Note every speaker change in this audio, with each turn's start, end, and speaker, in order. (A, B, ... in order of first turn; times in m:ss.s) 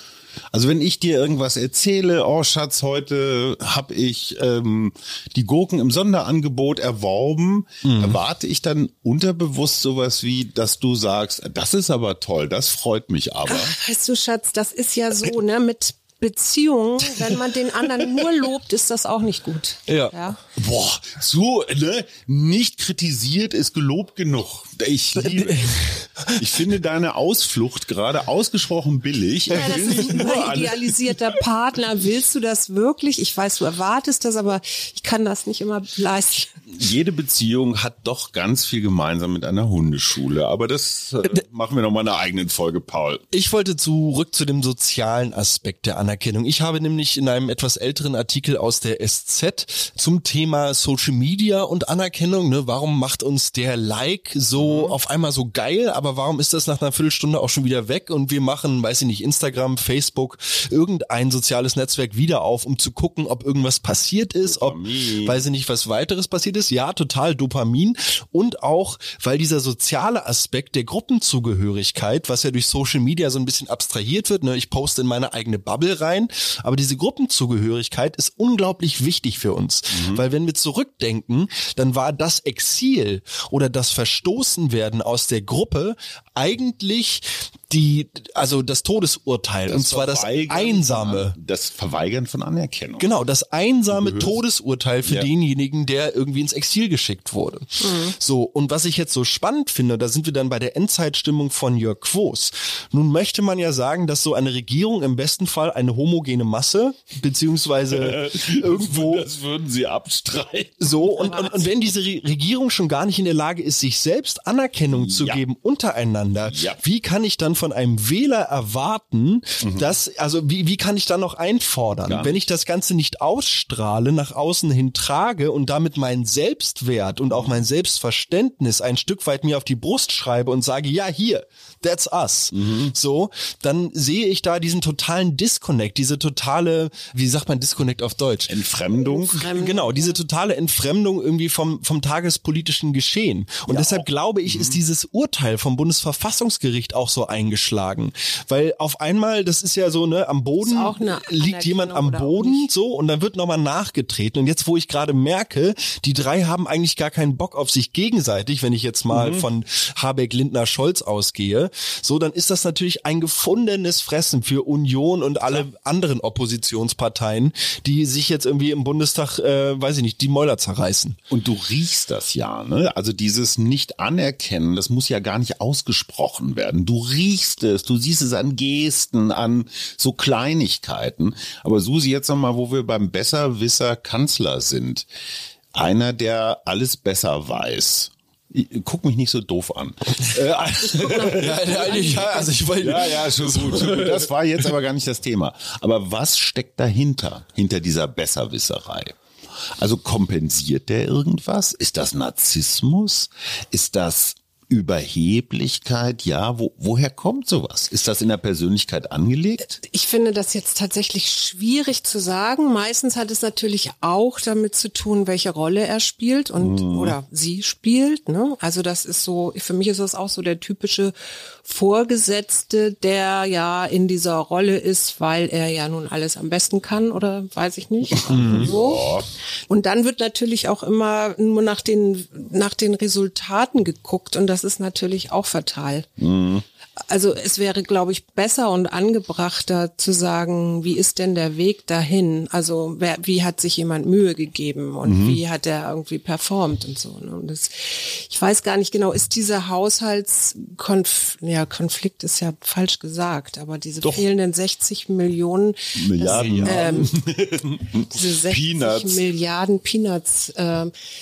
0:00.5-0:13.8 A
0:07.8-0:08.2 B
0:13.5-0:20.4 C
0:19.9-0:20.1 B
0:20.6-0:25.8 A
0:25.2-0:26.5 B
0:26.4-0:30.9 A
0:29.5-0:36.5 C
0:29.5-0:30.2 B
0:36.7-0:43.2 A
0:43.3-1:31.4 B
0:54.6-0:55.0 A
1:04.4-1:05.4 A
1:19.9-1:20.2 A
1:29.7-1:33.1 A
1:33.0-1:49.3 B
1:33.9-1:34.4 A
1:35.0-1:35.3 A
1:37.8-1:38.1 C
1:47.9-1:50.9 A
1:50.8-2:18.6 B
1:51.1-1:51.7 C
1:54.9-1:55.4 A
1:56.5-1:56.8 A
1:59.6-1:59.9 A
2:02.1-2:02.5 A
2:07.3-2:07.6 A
2:12.5-2:12.9 A
2:18.5-2:19.5 A
2:19.0-2:20.2 C
2:19.4-2:51.2 B
2:23.7-2:24.8 A
2:30.6-2:32.7 C
2:39.1-2:39.5 A
2:51.3-3:05.1 A
3:05.7-3:12.0 A
3:11.0-3:14.3 B
3:11.0-3:12.5 C
3:12.8-3:19.2 A
3:19.8-3:29.8 A
3:29.8-3:56.1 C
3:36.6-3:37.2 A
3:48.1-3:49.3 A
3:48.3-3:48.7 B
3:56.2-3:56.6 A
3:57.1-4:17.1 C
4:05.0-4:05.4 A
4:16.0-4:19.2 A
4:16.3-4:17.1 B
4:18.0-4:20.9 C